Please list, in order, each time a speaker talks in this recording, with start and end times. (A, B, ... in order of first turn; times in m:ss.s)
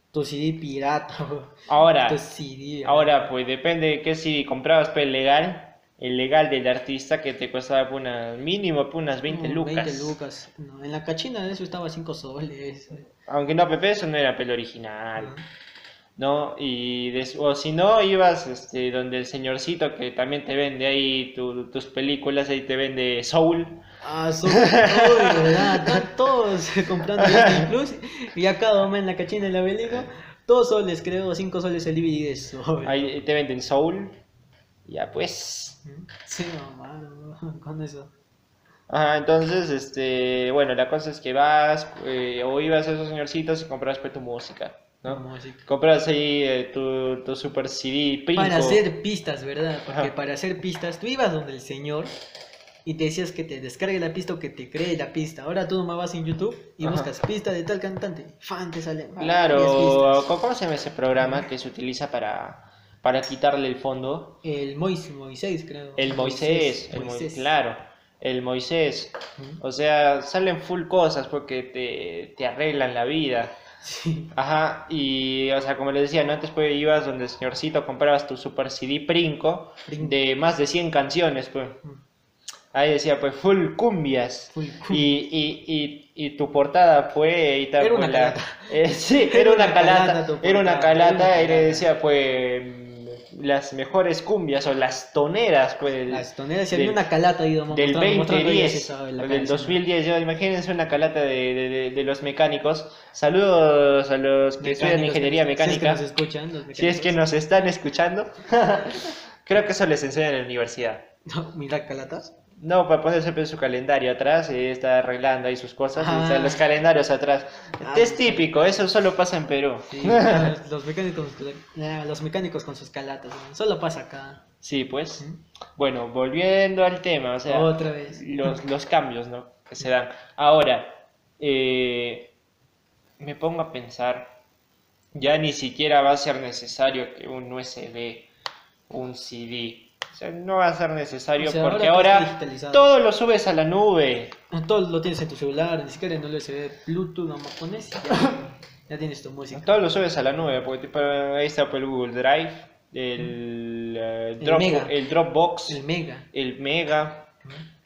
0:00.1-0:03.3 A
0:01.7-0:02.2 B
0:02.8-0:10.2 B
0:09.3-0:13.1 A
0:13.3-0:15.4 B
0:15.2-0:15.4 A
0:16.2-0:23.8 B
0:24.0-0:33.0 A
0:24.4-0:26.0 B
0:27.2-0:27.7 B
0:32.8-0:34.2 B
0:34.8-0:35.8 B
0:35.8-0:38.1 A
0:38.9-0:48.8 B
0:45.0-0:45.6 A
0:48.3-0:52.2 A
0:52.8-1:00.3 A
0:56.8-0:57.1 B
0:59.2-1:04.4 B
1:01.2-1:01.4 A
1:04.4-1:07.5 A
1:06.0-1:13.5 B
1:13.8-1:14.3 A
1:14.3-1:21.8 B
1:19.8-1:20.2 A
1:22.7-1:37.0 B
1:24.5-1:25.1 A
1:27.8-1:28.7 A
1:29.2-1:31.8 A
1:36.1-1:39.8 A
1:37.7-1:46.0 B
1:44.6-1:47.2 A
1:46.7-1:51.0 B
1:51.2-1:52.3 A
1:52.6-2:00.5 B
1:55.9-1:56.6 A
1:57.8-1:58.8 A
1:59.9-2:04.4 A
2:04.6-2:05.2 B
2:05.8-2:12.3 B
2:07.5-2:08.2 A
2:13.2-2:14.3 B
2:15.1-2:18.3 B
2:18.9-2:24.3 B
2:21.4-2:22.9 A
2:24.5-2:29.8 A
2:29.5-2:37.3 B
2:34.4-2:34.9 A
2:35.6-2:36.3 A